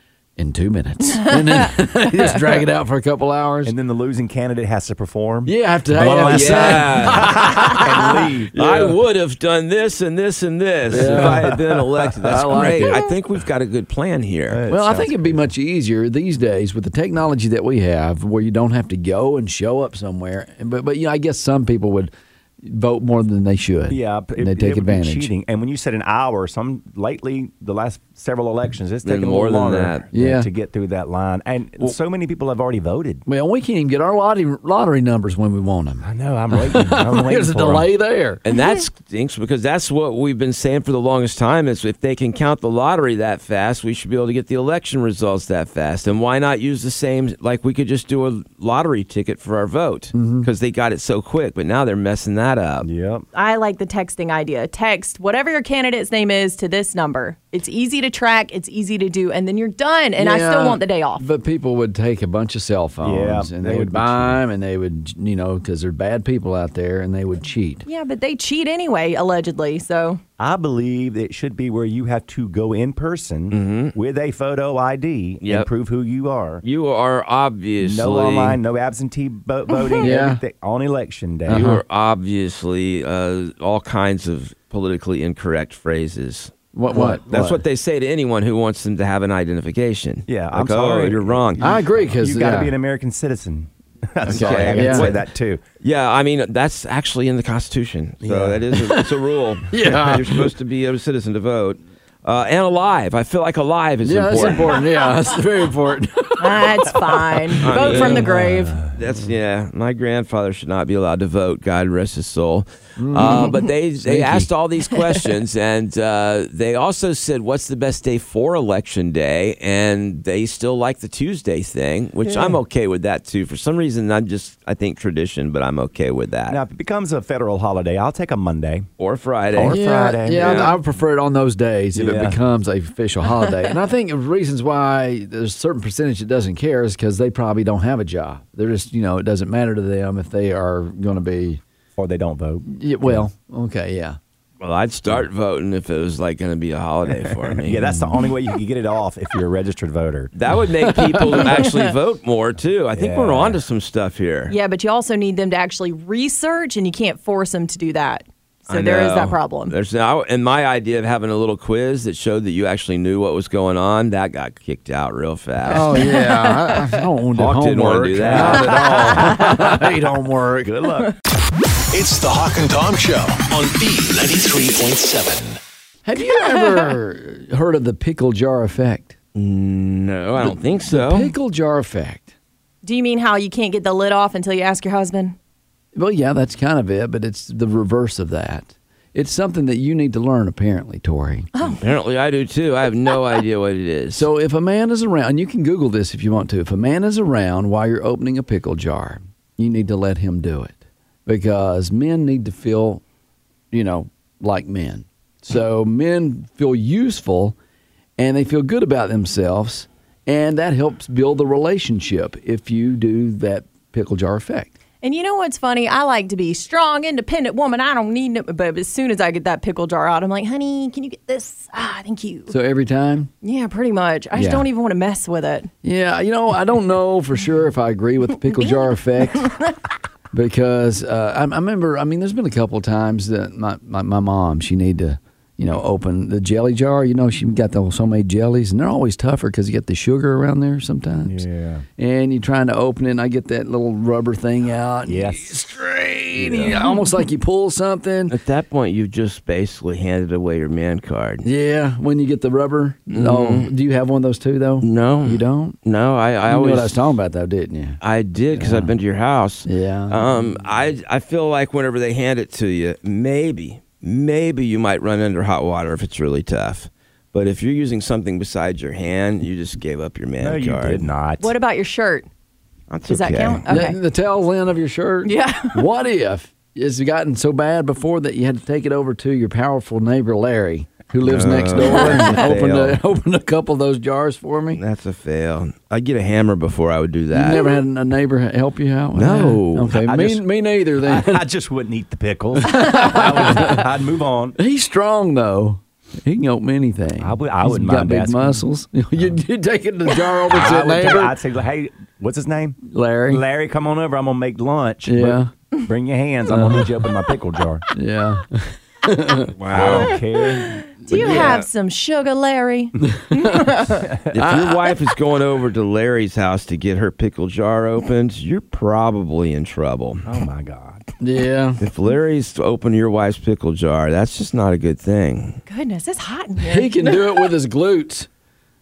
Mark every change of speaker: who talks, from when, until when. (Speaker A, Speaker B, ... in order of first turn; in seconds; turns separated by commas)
Speaker A: 0.4-3.8, Speaker B: 3.7-8.6, Speaker A: 5.5-7.8, Speaker C: 6.0-7.8, Speaker C: 8.5-14.6, Speaker A: 10.9-11.6, Speaker B: 11.0-11.8, Speaker A: 12.2-13.0, Speaker B: 14.5-15.5, Speaker A: 14.7-22.1, Speaker A: 22.6-25.3, Speaker B: 23.9-33.2, Speaker C: 29.1-30.1, Speaker A: 30.1-30.5, Speaker A: 33.3-38.4, Speaker B: 36.0-37.9, Speaker C: 38.5-52.9, Speaker A: 50.1-50.5, Speaker B: 52.8-53.3, Speaker D: 53.3-61.2, Speaker A: 60.2-67.8, Speaker B: 63.0-64.4, Speaker D: 67.9-70.2, Speaker B: 70.4-76.6, Speaker C: 73.5-73.9, Speaker C: 75.4-75.7, Speaker C: 76.6-78.6, Speaker B: 77.8-81.6, Speaker D: 79.7-80.1, Speaker A: 80.0-80.4, Speaker A: 81.5-81.8, Speaker C: 81.5-91.6, Speaker A: 86.7-87.6, Speaker B: 90.3-95.6, Speaker A: 91.6-92.8, Speaker A: 94.2-95.1, Speaker C: 94.2-95.3, Speaker C: 95.8-104.7, Speaker B: 98.2-98.6, Speaker A: 99.7-100.4, Speaker A: 104.0-107.0, Speaker D: 106.4-108.8, Speaker C: 107.6-108.3, Speaker B: 107.9-109.0, Speaker C: 108.9-126.6, Speaker A: 113.0-114.5, Speaker B: 122.2-122.6, Speaker B: 126.5-128.9, Speaker C: 129.0-129.8, Speaker B: 129.5-130.8, Speaker A: 129.6-141.6, Speaker C: 130.3-130.7, Speaker B: 131.9-132.4, Speaker B: 142.0-143.3, Speaker A: 142.7-144.2, Speaker C: 144.6-147.9, Speaker B: 147.6-150.3, Speaker C: 150.3-154.6, Speaker A: 150.9-151.4, Speaker D: 151.4-151.9, Speaker B: 152.9-153.6, Speaker D: 154.5-159.7, Speaker C: 158.7-166.1, Speaker A: 165.6-170.7, Speaker D: 166.0-166.8, Speaker C: 167.3-168.8, Speaker B: 168.3-170.1, Speaker B: 170.6-171.2, Speaker E: 171.9-175.6, Speaker A: 176.1-179.2, Speaker D: 176.4-177.0, Speaker C: 179.3-181.3, Speaker A: 180.4-182.3, Speaker D: 182.8-185.4, Speaker A: 185.9-191.5, Speaker D: 191.6-191.8, Speaker C: 191.6-194.3, Speaker A: 194.1-200.8, Speaker A: 201.3-203.0, Speaker A: 203.7-207.6, Speaker A: 208.2-214.7, Speaker D: 215.0-222.5, Speaker A: 222.5-223.3, Speaker D: 223.4-225.7, Speaker A: 224.3-224.7, Speaker A: 225.8-229.5, Speaker D: 228.5-229.7, Speaker A: 230.3-241.4, Speaker B: 241.3-241.8, Speaker A: 242.0-248.3, Speaker B: 245.1-245.6, Speaker B: 246.4-246.8, Speaker C: 248.3-251.5, Speaker A: 251.4-255.8, Speaker C: 253.1-253.7, Speaker C: 254.8-257.0, Speaker A: 256.5-258.0, Speaker C: 258.0-271.1, Speaker A: 258.6-258.9, Speaker A: 259.6-260.6, Speaker B: 270.4-271.5, Speaker D: 271.4-272.3, Speaker C: 272.9-273.6, Speaker D: 273.1-274.0, Speaker A: 273.7-284.8, Speaker D: 275.2-275.8, Speaker C: 281.2-283.0, Speaker C: 284.7-287.6, Speaker A: 287.3-291.5, Speaker D: 287.5-287.8, Speaker C: 289.1-289.9, Speaker B: 289.9-294.6, Speaker A: 292.6-293.8, Speaker A: 294.6-301.4, Speaker B: 297.2-298.6, Speaker B: 300.5-307.9, Speaker A: 302.9-303.4, Speaker A: 305.0-305.5, Speaker A: 306.5-306.9, Speaker A: 307.9-309.5, Speaker C: 309.6-310.2, Speaker B: 309.7-311.5, Speaker D: 309.9-314.1, Speaker A: 311.1-311.5, Speaker C: 311.2-311.7, Speaker A: 313.1-313.6, Speaker C: 314.3-320.2, Speaker A: 314.4-314.8, Speaker B: 320.2-321.1, Speaker A: 321.2-321.8, Speaker C: 321.8-325.6, Speaker D: 325.7-327.4, Speaker A: 326.7-328.3